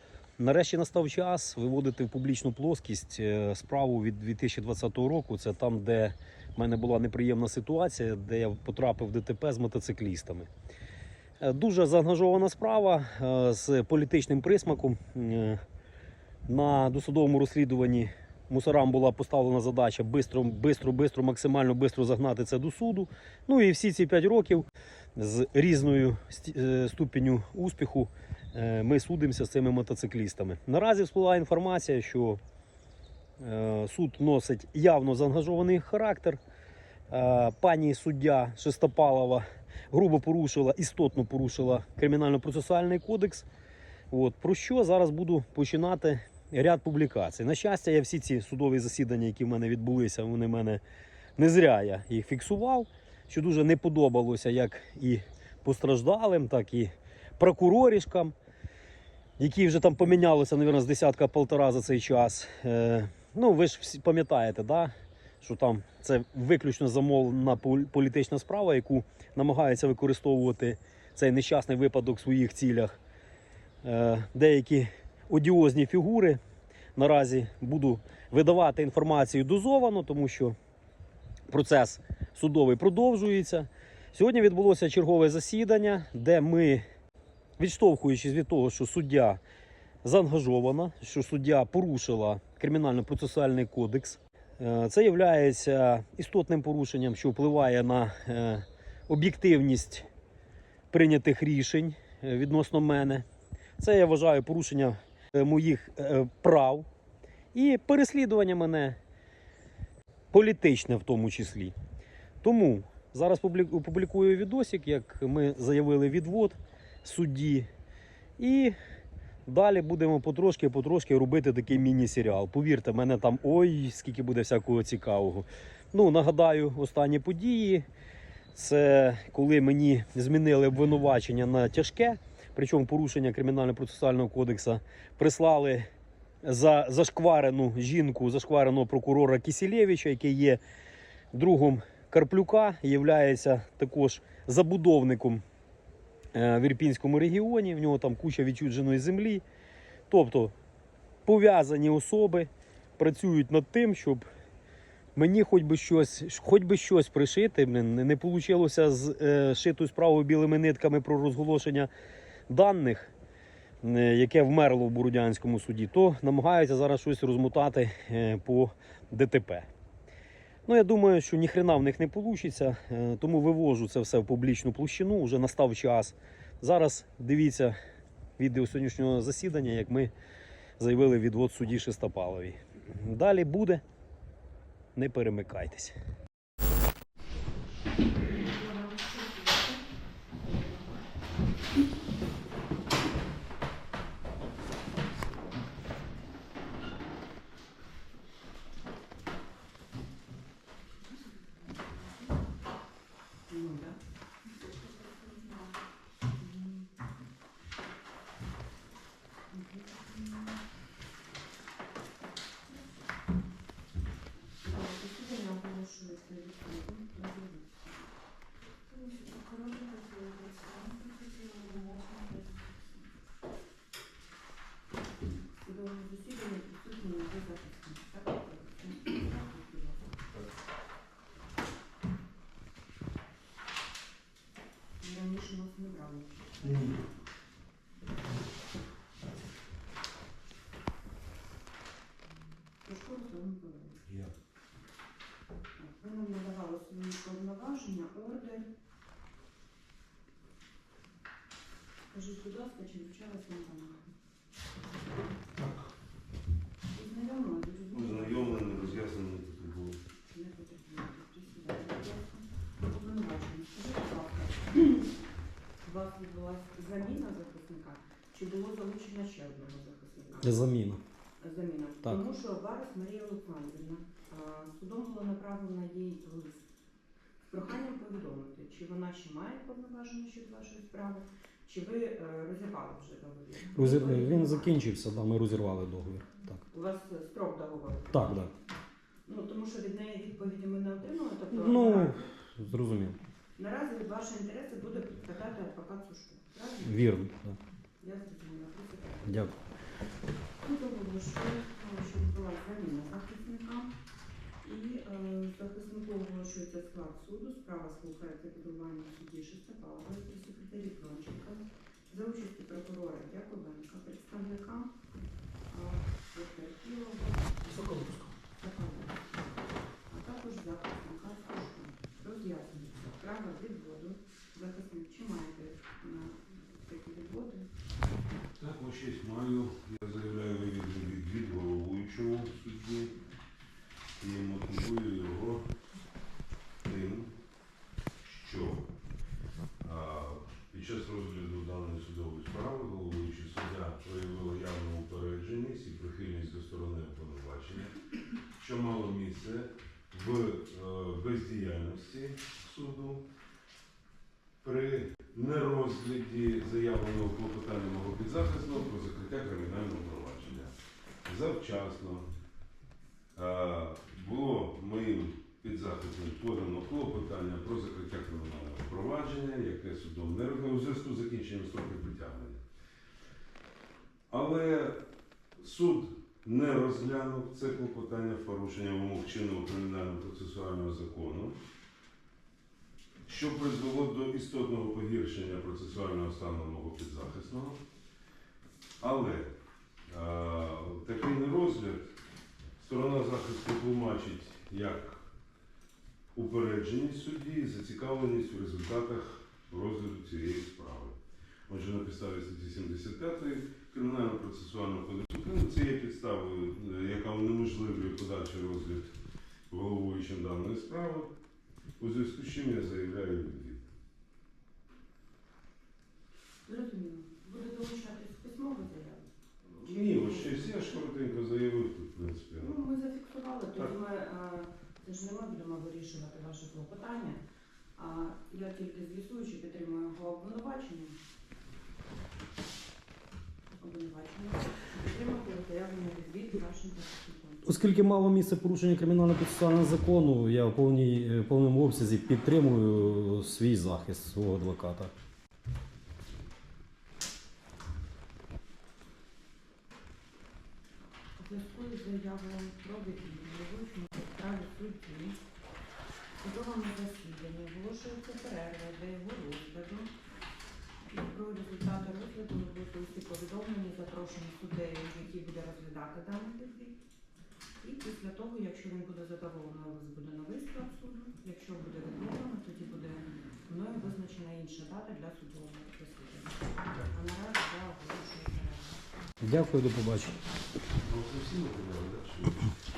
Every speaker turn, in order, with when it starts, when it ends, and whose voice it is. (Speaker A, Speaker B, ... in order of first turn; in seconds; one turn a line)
Speaker A: 0.4-10.5
Speaker A: 11.4-15.6
Speaker A: 16.5-32.4
Speaker A: 33.4-36.4
Speaker A: 37.1-43.5
Speaker A: 44.1-50.8
Speaker A: 51.4-58.3
Speaker A: 59.4-73.0
Speaker A: 73.8-76.4
Speaker A: 77.0-80.5
Speaker A: 81.5-86.8
Speaker A: 87.6-89.4
Speaker A: 90.0-100.1
Speaker A: 100.9-103.2
Speaker A: 103.8-106.9
Speaker A: 107.5-109.0
Speaker A: 110.3-111.8
Speaker A: 112.4-117.7
Speaker A: 118.4-118.8
Speaker A: 119.5-127.9
Speaker A: 128.5-135.9
Speaker A: 136.4-140.6
Speaker A: 141.3-145.4
Speaker A: 146.3-149.4
Speaker A: 150.1-150.5
Speaker A: 151.2-154.2
Speaker A: 155.2-161.9
Speaker A: 162.5-163.1
Speaker A: 163.8-169.7
Speaker A: 170.7-177.8
Speaker A: 178.4-180.1
Speaker A: 180.8-183.8
Speaker A: 184.9-185.9
Speaker B: 188.3-189.8
Speaker B: 190.4-190.8
Speaker B: 203.5-204.0
Speaker B: 206.4-206.9
Speaker B: 209.5-210.5
Speaker B: 214.6-218.0
Speaker B: 218.9-222.7
Speaker B: 225.6-230.1
Speaker B: 235.0-236.9
Speaker B: 242.8-244.0
Speaker B: 245.8-248.7
Speaker B: 252.1-254.1
Speaker C: 255.6-255.8
Speaker B: 256.9-259.1
Speaker C: 257.9-260.0
Speaker B: 260.3-265.1
Speaker B: 265.8-270.6
Speaker A: 270.4-271.0
Speaker B: 271.4-276.6
Speaker B: 277.5-284.8
Speaker A: 283.7-286.6
Speaker B: 286.7-288.5
Speaker A: 288.1-288.5
Speaker B: 289.2-292.2
Speaker A: 291.5-293.2
Speaker B: 293.6-297.0
Speaker A: 296.8-297.6
Speaker B: 298.0-299.6
Speaker A: 299.2-299.5
Speaker B: 300.6-303.9
Speaker B: 304.6-314.9
Speaker B: 315.7-318.0
Speaker A: 317.6-318.3
Speaker B: 318.6-319.4
Speaker B: 320.1-327.7
Speaker C: 328.6-333.2
Speaker C: 334.2-335.7
Speaker C: 336.8-337.3
Speaker C: 338.2-338.9
Speaker C: 339.8-348.0
Speaker C: 348.5-353.2
Speaker C: 354.6-360.7
Speaker C: 361.2-362.3
Speaker C: 363.3-372.6
Speaker C: 374.3-375.0
Speaker C: 375.6-381.6
Speaker C: 383.2-387.8
Speaker C: 389.0-389.5
Speaker C: 390.1-392.2
Speaker C: 392.8-395.2
Speaker C: 396.3-401.1
Speaker C: 401.7-409.2
Speaker C: 409.7-411.3
Speaker C: 412.0-413.8
Speaker B: 416.6-419.3
Speaker C: 419.6-422.8
Speaker B: 419.8-420.6
Speaker B: 422.6-427.4
Speaker B: 427.9-431.2
Speaker B: 433.8-437.8
Speaker A: 437.6-445.1
Speaker B: 451.4-455.4
Speaker B: 456.4-460.1
Speaker B: 461.1-467.0
Speaker B: 467.8-479.0
Speaker A: 479.4-480.4
Speaker C: 481.0-482.7